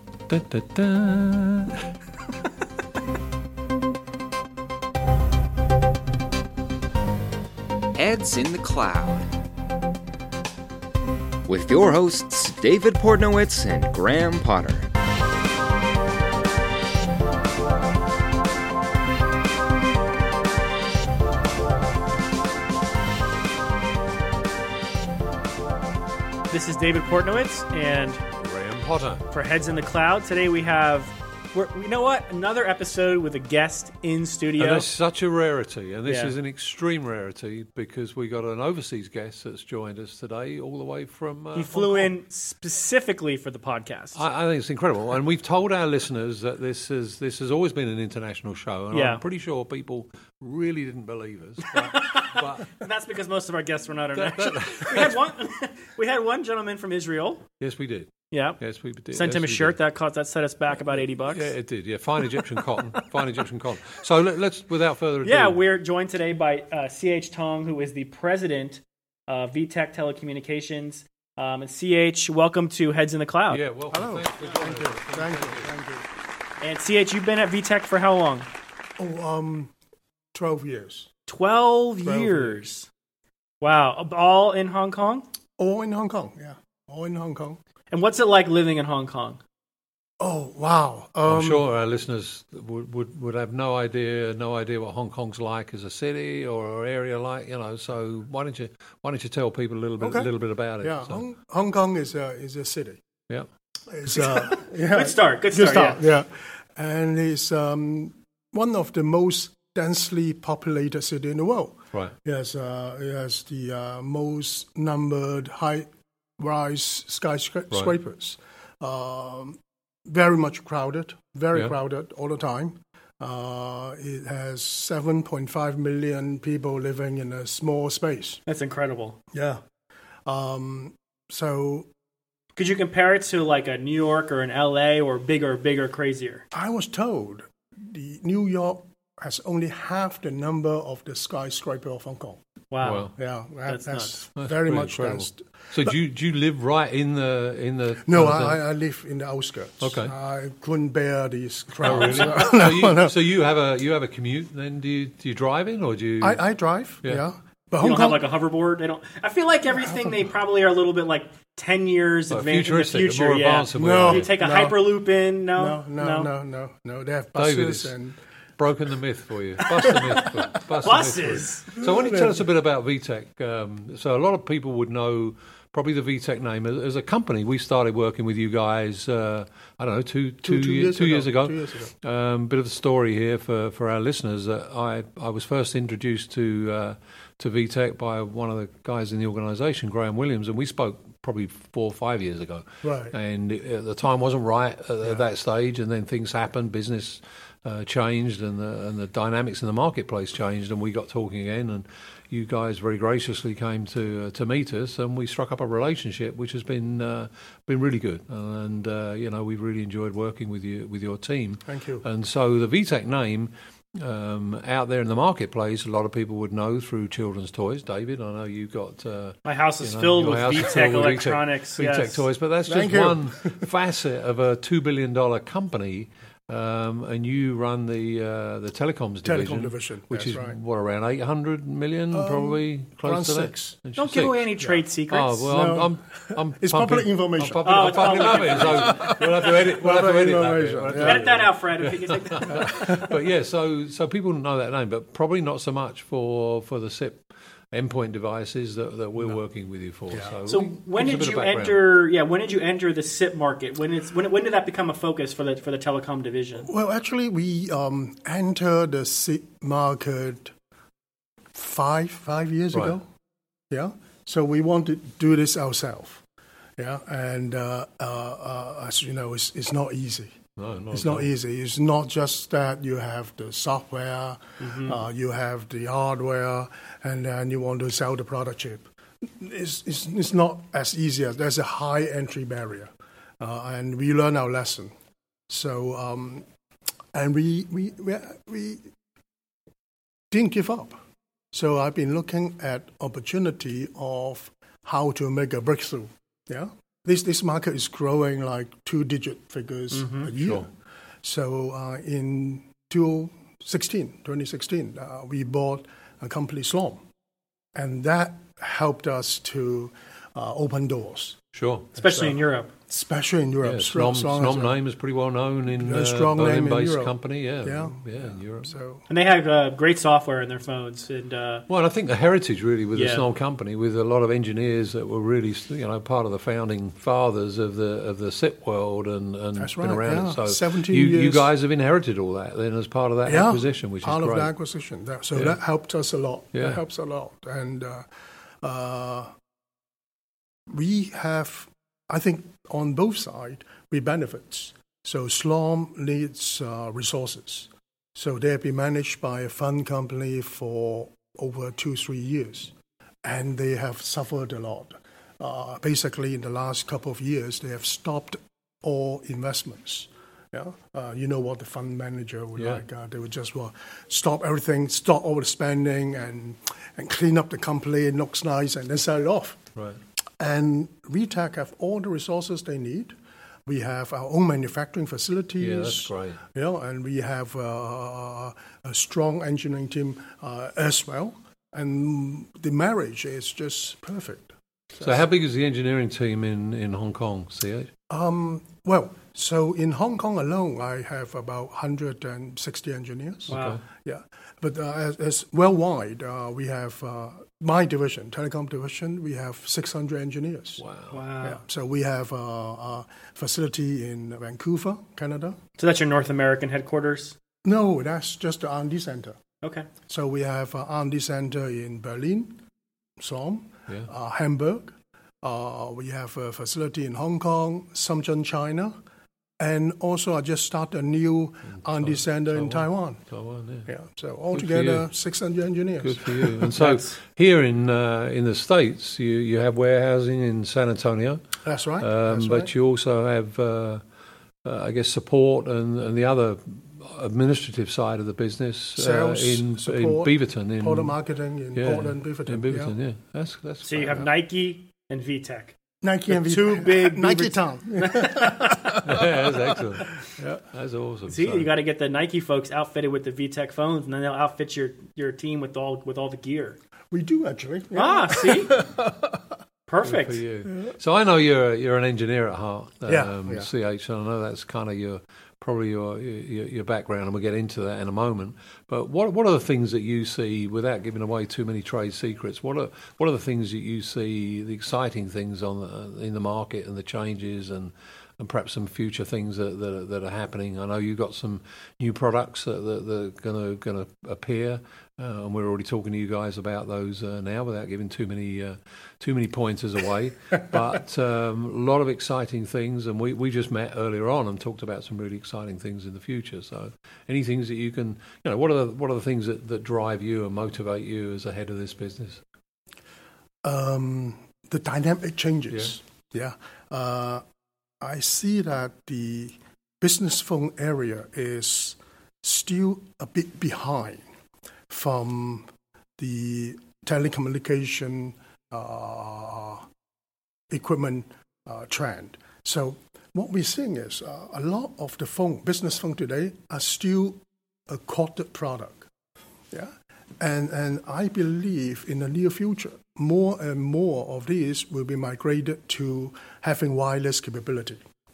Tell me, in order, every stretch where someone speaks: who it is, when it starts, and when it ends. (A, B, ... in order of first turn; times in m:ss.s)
0:00.3-0:01.8 A
0:08.0-0:09.3 B
0:11.5-0:14.8 B
0:26.5-0:28.2 C
0:28.4-0:29.2 A
0:29.3-0:34.9 C
0:34.6-0:42.1 A
0:36.0-0:36.3 C
0:41.5-0:44.2 C
0:44.1-0:52.7 A
0:48.9-0:49.2 C
0:51.6-0:57.4 C
0:54.2-0:55.2 A
0:57.6-0:59.8 A
0:58.3-0:58.6 C
0:59.1-1:01.5 C
1:01.1-1:05.6 A
1:05.2-1:13.6 C
1:13.5-1:15.7 A
1:13.9-1:16.1 D
1:16.6-1:18.5 C
1:19.0-1:19.7 D
1:20.3-1:21.1 D
1:21.3-1:22.9 C
1:22.0-1:22.6 D
1:23.6-1:25.2 C
1:25.6-1:27.6 D
1:27.9-1:29.4 C
1:30.2-1:31.6 D
1:31.2-1:41.2 A
1:40.0-1:43.0 D
1:43.8-1:55.9 D
1:44.4-1:46.0 C
1:56.4-2:08.4 D
2:08.4-2:09.2 C
2:09.3-2:09.6 D
2:10.2-2:11.9 D
2:12.6-2:16.4 C
2:16.5-2:22.4 D
2:22.7-2:23.1 C
2:22.8-2:23.1 A
2:23.2-2:25.5 D
2:23.6-2:24.2 C
2:24.4-2:28.6 A
2:28.0-2:33.1 D
2:29.8-2:30.1 A
2:31.8-2:36.4 A
2:36.2-2:38.3 D
2:37.8-2:46.3 C
2:39.9-2:40.1 D
2:42.3-2:44.3 A
2:43.7-2:44.8 D
2:45.6-2:48.2 D
2:47.4-2:48.0 A
2:48.6-3:54.5 A
2:49.7-2:51.8 C
2:51.8-2:52.4 D
3:00.4-3:01.9 D
3:12.8-3:13.1 D
3:31.6-3:32.0 D
3:39.4-3:42.2 C
3:42.6-3:43.7 D
3:49.2-3:50.6 D
3:52.1-3:53.8 D
3:54.0-3:55.4 C
3:55.1-4:11.8 A
3:55.5-4:01.3 D
3:57.6-3:59.1 C
4:01.0-4:02.8 C
4:02.5-4:03.2 D
4:10.1-4:10.4 D
4:10.5-4:16.7 C
4:16.6-4:20.5 D
4:21.5-4:23.1 D
4:23.7-4:26.2 D
4:26.8-4:30.4 D
4:30.6-4:31.3 A
4:30.9-4:44.9 D
4:34.6-4:35.0 C
4:45.5-4:46.4 D
4:47.1-4:48.9 D
4:50.3-5:00.7 D
4:59.9-5:00.3 C
5:00.4-5:00.6 A
5:01.2-5:07.0 D
5:07.7-5:11.4 D
5:11.5-5:11.9 A
5:12.0-5:12.7 C
5:12.0-5:14.8 D
5:13.6-5:18.7 A
5:15.7-5:19.0 D
5:19.1-5:21.6 C
5:21.7-5:34.5 A
5:22.9-5:23.2 C
5:29.6-5:31.5 D
5:33.2-5:38.1 D
5:36.5-5:36.8 A
5:38.6-5:39.3 D
5:40.7-5:52.7 D
5:53.2-6:09.6 D
6:02.6-6:02.8 A
6:10.4-6:13.1 D
6:13.6-6:25.2 D
6:15.6-6:16.4 A
6:25.0-6:27.9 A
6:28.1-6:40.8 D
6:33.5-6:33.8 A
6:33.5-6:33.8 C
6:40.8-6:41.2 A
6:41.1-6:41.6 C
6:41.4-6:45.6 D
6:45.8-6:47.4 C
6:47.6-6:49.4 D
6:49.6-6:49.9 C
6:50.1-6:52.6 D
6:53.2-6:59.0 D
6:59.6-7:03.2 D
7:01.8-7:03.9 A
7:03.9-7:06.7 D
7:04.5-7:05.0 A
7:06.0-7:11.4 A
7:06.8-7:07.1 C
7:11.6-7:12.7 D
7:12.0-7:14.0 A
7:14.6-7:21.1 A
7:19.0-7:22.9 D
7:21.7-7:24.3 A
7:23.8-7:25.8 C
7:26.0-7:29.7 D
7:26.3-7:28.9 C
7:29.0-7:30.1 A
7:30.3-7:30.6 D
7:30.7-7:31.7 A
7:31.3-7:36.8 C
7:37.1-7:39.4 D
7:37.9-7:38.7 C
7:39.9-7:40.4 C
7:40.0-8:22.4 A
7:43.0-7:43.7 D
8:23.6-8:27.4 D
8:28.0-8:34.2 D
8:34.9-8:39.8 D
8:40.7-8:49.1 D
8:49.7-8:58.0 D